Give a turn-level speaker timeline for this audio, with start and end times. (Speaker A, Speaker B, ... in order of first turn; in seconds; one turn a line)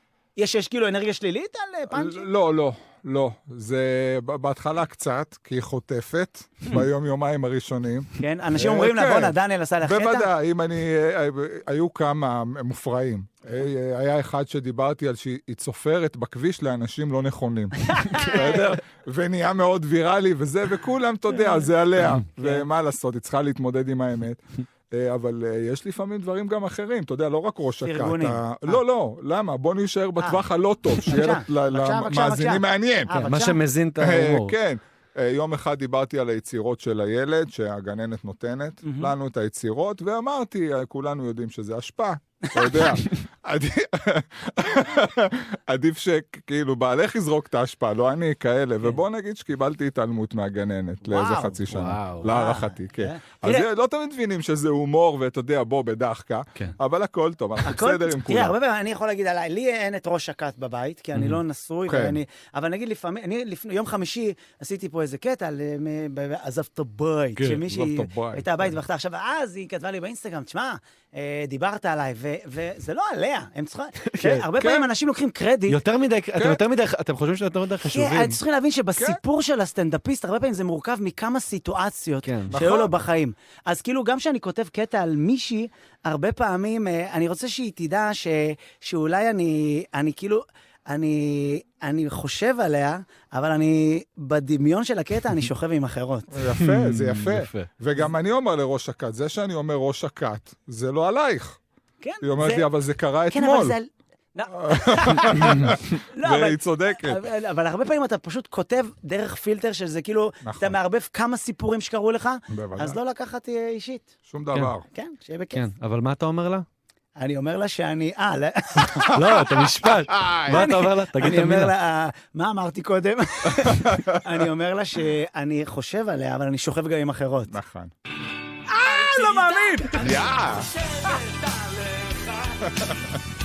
Speaker A: 0.4-2.3
Speaker B: 1.9-33.2
Speaker A: 8.2-10.3
Speaker A: 17.9-18.6
Speaker A: 22.4-22.6
Speaker A: 27.8-28.8
Speaker A: 31.1-33.6
Speaker C: 33.2-34.5
Speaker B: 34.0-58.5
Speaker A: 38.8-39.1
Speaker A: 42.5-42.9
Speaker A: 51.0-51.6
Speaker C: 51.7-52.3
Speaker A: 52.2-53.7
Speaker A: 57.6-75.8
Speaker C: 61.1-61.4
Speaker B: 61.9-62.2
Speaker B: 67.4-68.7
Speaker C: 74.0-74.5
Speaker B: 74.6-74.9
Speaker C: 75.7-78.4
Speaker B: 76.3-76.6
Speaker A: 77.8-96.3
Speaker C: 82.2-82.5
Speaker B: 82.5-82.9
Speaker B: 96.3-101.6
Speaker C: 96.6-97.7
Speaker A: 102.0-102.7
Speaker B: 102.2-103.8
Speaker A: 103.3-114.1
Speaker B: 104.5-107.2
Speaker C: 105.3-105.7
Speaker B: 110.4-110.8
Speaker B: 112.5-113.0
Speaker B: 114.3-114.8
Speaker A: 114.9-115.6
Speaker C: 115.5-116.6
Speaker A: 117.2-119.4
Speaker C: 119.0-121.7
Speaker B: 119.8-120.7
Speaker A: 120.5-127.5
Speaker B: 123.5-124.3
Speaker B: 127.5-127.9
Speaker A: 128.7-132.7
Speaker B: 128.8-130.7
Speaker B: 132.7-133.0